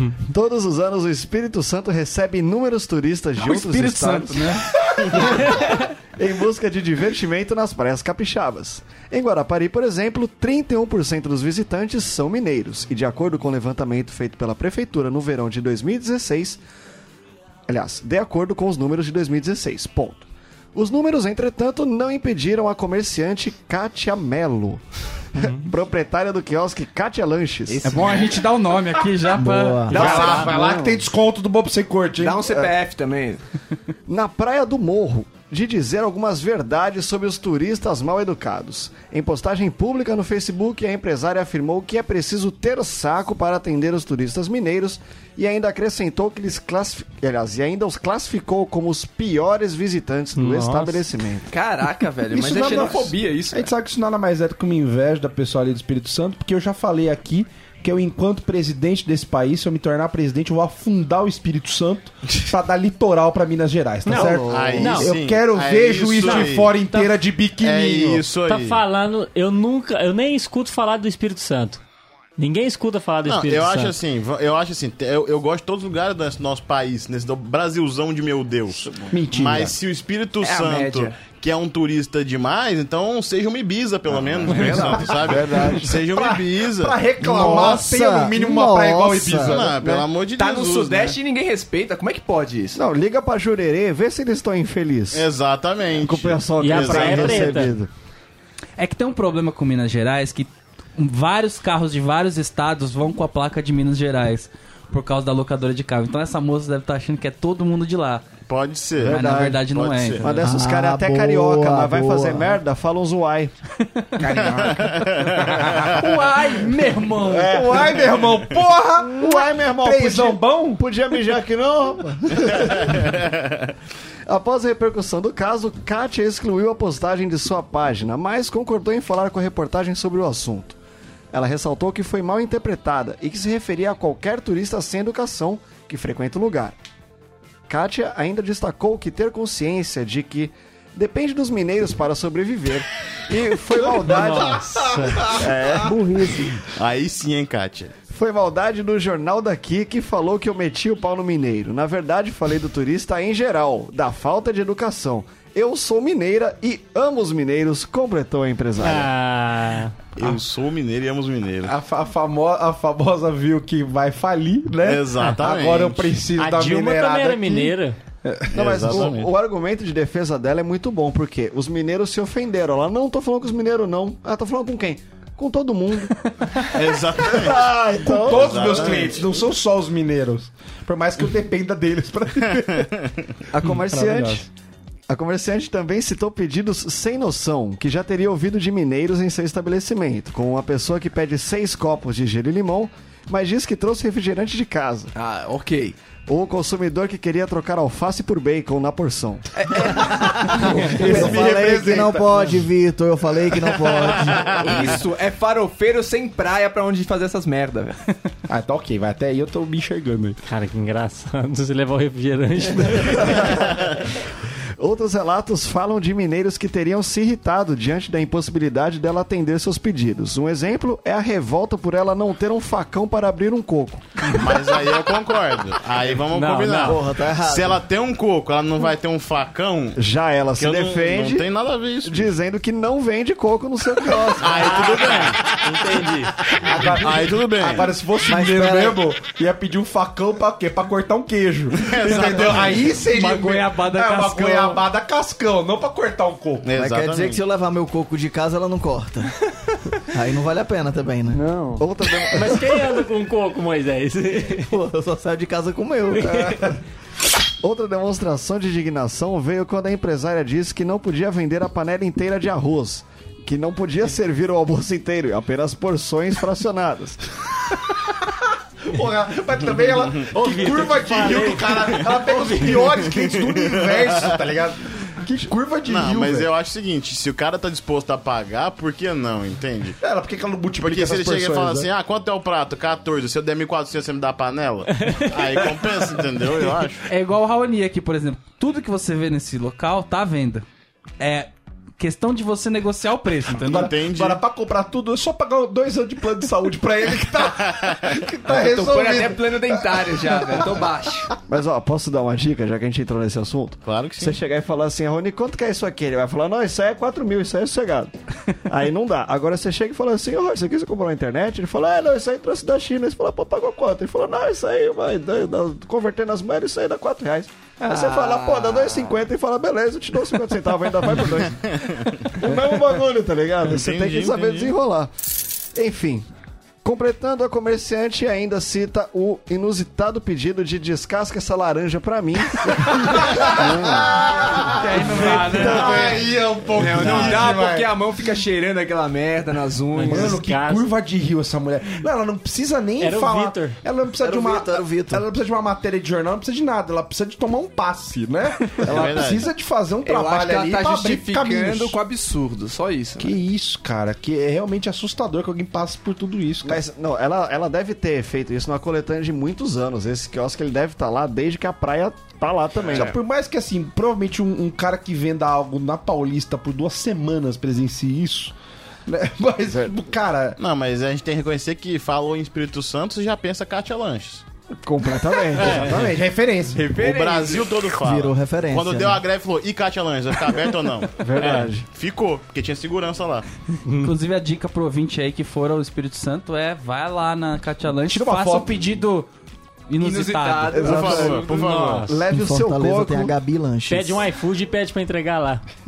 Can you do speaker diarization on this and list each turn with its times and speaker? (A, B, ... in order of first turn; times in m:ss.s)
0:00.3-0:16.6 A
0:03.4-0:04.7 B
0:17.7-0:24.8 A
0:25.4-0:28.2 A
0:27.7-0:28.4 C
0:27.8-0:30.5 B
0:29.3-0:30.4 D
0:29.9-0:30.6 E
0:29.9-0:32.4 F
0:30.4-0:31.0 A
0:32.2-0:33.4 C
0:34.1-0:51.5 A
0:50.4-0:51.1 E
0:51.5-0:53.7 C
0:52.3-1:08.2 F
1:04.1-1:05.2 E
1:04.1-1:04.9 D
1:04.5-1:06.7 G
1:06.2-1:07.2 E
1:07.6-1:08.8 G
1:08.4-1:11.8 E
1:12.4-1:14.0 E
1:13.2-1:27.0 G
1:19.1-1:19.8 F
1:20.4-1:21.2 C
1:24.5-1:29.8 F
1:24.5-1:24.9 E
1:25.1-1:26.0 A
1:27.2-1:29.6 D
1:27.4-1:27.8 A
1:29.4-1:31.2 G
1:30.4-1:32.8 C
1:32.7-1:35.3 A
1:35.1-1:37.6 G
1:35.9-1:37.9 A
1:36.6-1:37.8 E
1:38.8-1:48.3 B
1:48.5-1:50.3 G
1:49.0-1:49.6 A
1:49.0-1:50.2 B
1:50.2-1:53.5 A
1:50.2-1:52.6 D
1:54.2-1:56.1 F
1:54.4-1:55.9 G
1:56.0-1:57.7 B
1:57.2-2:00.8 F
1:57.4-1:58.1 A
1:59.1-2:03.2 A
2:02.7-2:03.5 G
2:04.3-2:10.8 A
2:11.3-2:16.8 A
2:17.7-2:26.6 A
2:23.8-2:25.3 E
2:25.1-2:25.4 F
2:26.7-2:27.9 G
2:28.1-2:39.1 A
2:38.8-2:40.1 E
2:40.2-2:41.7 G
2:41.6-2:47.7 F
2:44.8-2:46.2 G
2:45.2-2:45.4 E
2:46.4-2:48.0 E
2:48.2-2:49.1 F
2:48.5-2:49.3 G
2:48.5-2:56.1 A
2:56.7-2:57.7 G
2:57.2-2:59.2 A
2:58.0-3:02.9 F
2:58.3-2:59.2 G
3:02.5-3:03.3 G
3:03.5-3:04.4 A
3:03.9-3:04.4 F
3:05.1-3:15.1 A
3:15.2-3:16.0 C
3:16.3-3:19.5 A
3:19.6-3:21.6 C
3:20.2-3:22.7 F
3:20.5-3:24.9 D
3:20.9-3:21.5 A
3:23.7-3:25.0 G
3:24.4-3:28.0 C
3:28.5-3:30.4 F
3:30.5-3:33.5 E
3:33.1-3:33.9 A
3:34.8-3:44.2 A
3:44.3-3:50.0 G
3:46.2-3:47.0 E
3:46.8-3:47.8 D
3:50.0-3:51.5 A
3:50.6-3:52.3 G
3:52.0-3:55.2 A
3:54.4-3:55.6 G
3:54.5-3:56.5 E
3:56.5-4:06.7 F
3:56.8-3:57.9 G
3:58.2-3:59.0 D
4:01.8-4:02.9 G
4:03.0-4:04.8 B
4:06.6-4:07.4 G
4:06.8-4:09.3 D
4:10.1-4:11.4 D
4:11.4-4:11.8 F
4:11.8-4:12.7 A
4:12.3-4:14.7 E
4:14.6-4:16.7 D
4:16.1-4:16.8 E
4:17.6-4:27.2 A
4:28.9-4:36.5 F
4:30.4-4:32.8 E
4:32.8-4:34.4 G
4:35.9-4:40.0 G
4:40.0-4:41.9 F
4:40.8-4:47.0 G
4:45.0-4:45.6 E
4:47.1-4:50.6 B
4:51.2-4:53.9 B
4:53.6-5:00.7 F
4:53.6-4:54.4 G
4:58.5-5:01.3 C
5:01.5-5:08.1 A
5:03.9-5:04.4 G
5:08.7-5:21.8 A
5:17.8-5:19.1 C
5:21.5-5:22.3 G
5:22.4-5:26.3 A
5:23.7-5:24.8 G
5:26.8-5:34.8 A
5:32.8-5:37.9 F
5:34.7-5:36.2 B
5:35.4-5:36.3 A
5:36.7-5:40.3 C
5:36.8-5:37.5 G
5:40.0-5:40.9 E
5:40.0-5:52.0 F
5:43.0-5:43.8 E
5:44.2-5:45.2 D
5:48.8-5:49.5 G
5:50.0-5:53.4 C
5:53.2-5:56.8 F
5:56.6-6:03.2 A
6:02.9-6:08.5 F
6:09.1-6:10.6 F
6:09.7-6:09.9 A
6:10.6-6:14.4 G
6:14.8-6:16.1 A
6:15.5-6:16.1 E
6:15.6-6:16.9 F
6:16.7-6:17.8 C
6:17.0-6:23.5 G
6:18.0-6:19.2 D
6:21.2-6:21.9 A
6:21.4-6:21.7 E
6:23.9-6:29.3 B
6:28.1-6:28.8 F
6:29.9-6:31.0 B
6:30.0-6:31.7 C
6:30.8-6:31.5 A
6:30.8-6:32.1 G
6:31.5-6:32.3 E
6:32.1-6:33.4 A
6:32.3-6:34.3 D
6:33.9-6:35.6 E